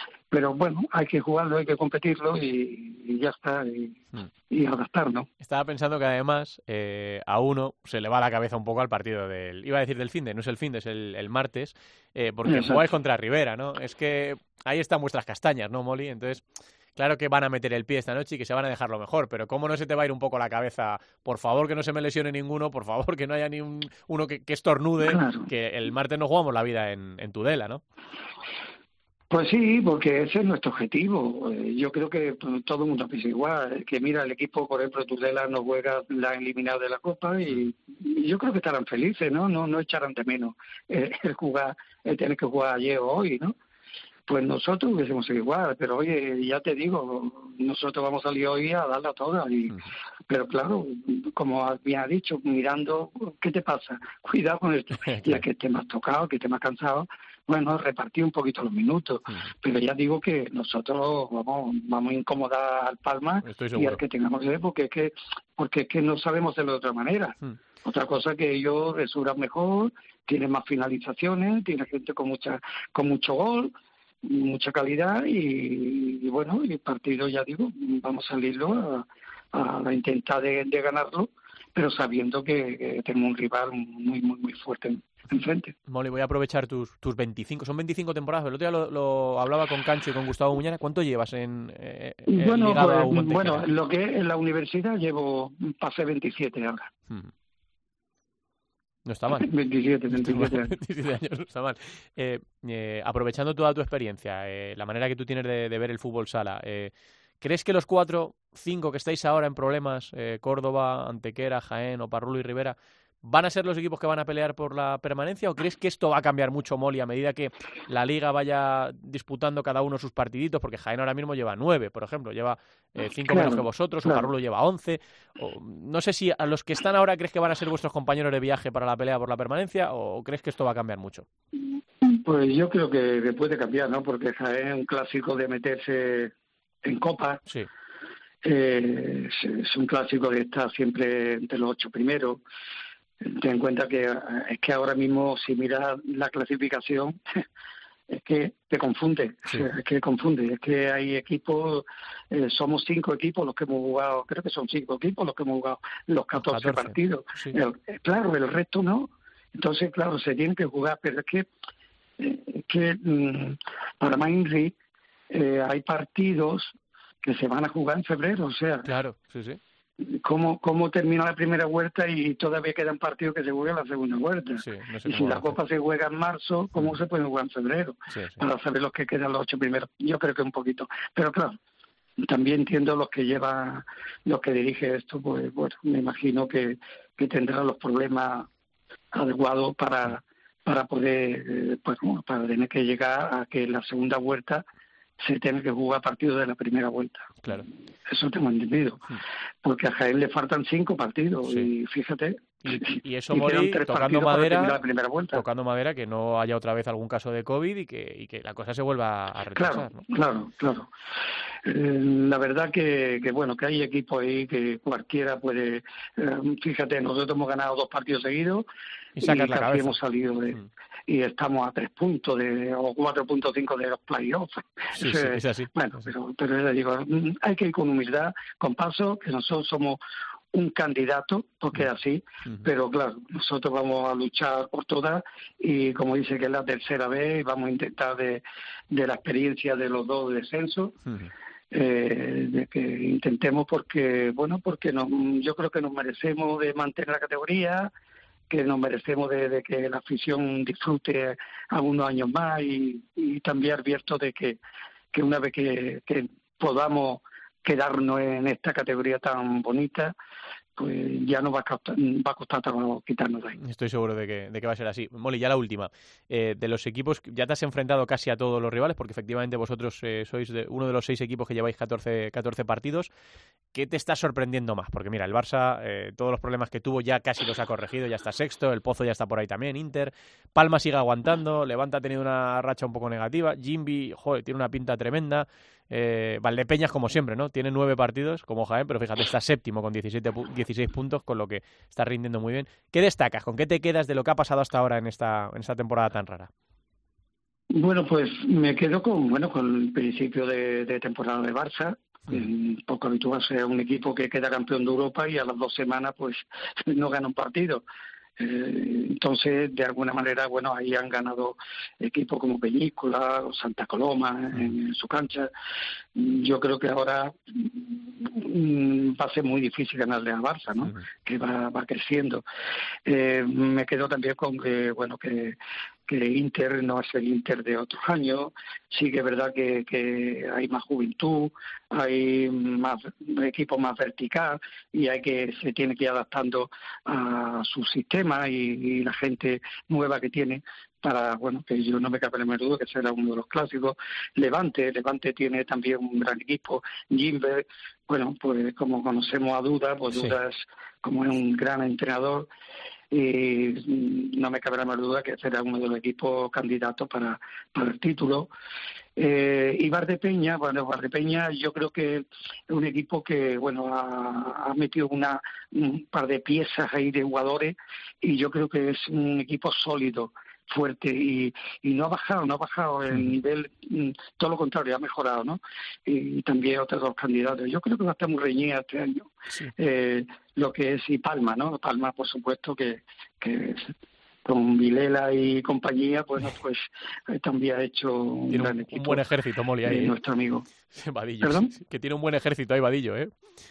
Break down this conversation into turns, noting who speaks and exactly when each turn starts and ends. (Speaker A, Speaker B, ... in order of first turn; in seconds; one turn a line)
Speaker A: 0.3-5.3
Speaker B: 5.4-16.4
Speaker A: 12.4-12.8
Speaker B: 16.9-27.8
Speaker A: 25.0-25.5
Speaker A: 29.3-43.5
Speaker A: 44.3-85.7
Speaker B: 55.0-55.4
Speaker B: 63.4-64.0
Speaker B: 85.9-93.6
Speaker A: 92.3-96.9
Speaker B: 99.1-99.5
Speaker A: 99.3-100.7
Speaker B: 100.1-131.3
Speaker A: 123.2-124.2
Speaker A: 132.1-136.3
Speaker A: 136.8-137.4
Speaker A: 138.4-142.4
Speaker A: 143.2-147.4
Speaker A: 148.1-161.5
Speaker B: 156.4-157.5
Speaker A: 162.2-164.7
Speaker A: 165.3-168.9
Speaker B: 168.8-169.6
Speaker A: 170.0-181.6
Speaker B: 174.6-175.6
Speaker B: 178.1-178.4
Speaker A: 182.2-188.5
Speaker A: 189.1-194.6
Speaker A: 195.2-197.5
Speaker A: 198.1-205.4
Speaker B: 202.6-204.8
Speaker B: 205.3-210.0
Speaker A: 209.5-210.9
Speaker A: 211.6-218.7
Speaker B: 219.2-220.0
Speaker A: 219.2-230.0
Speaker B: 224.9-225.7
Speaker A: 230.5-241.0
Speaker B: 241.1-241.3
Speaker A: 241.7-247.9
Speaker A: 248.5-254.6
Speaker A: 255.1-260.1
Speaker A: 260.8-263.6
Speaker B: 263.6-273.1
Speaker B: 273.7-296.5
Speaker A: 297.7-307.8
Speaker A: 308.4-315.5
Speaker A: 316.1-322.4
Speaker A: 323.1-352.5
Speaker A: 353.1-358.5
Speaker A: 359.2-383.9
Speaker A: 384.4-389.2
Speaker B: 388.5-390.1
Speaker A: 389.8-390.7
Speaker B: 390.9-393.3
Speaker A: 391.4-391.7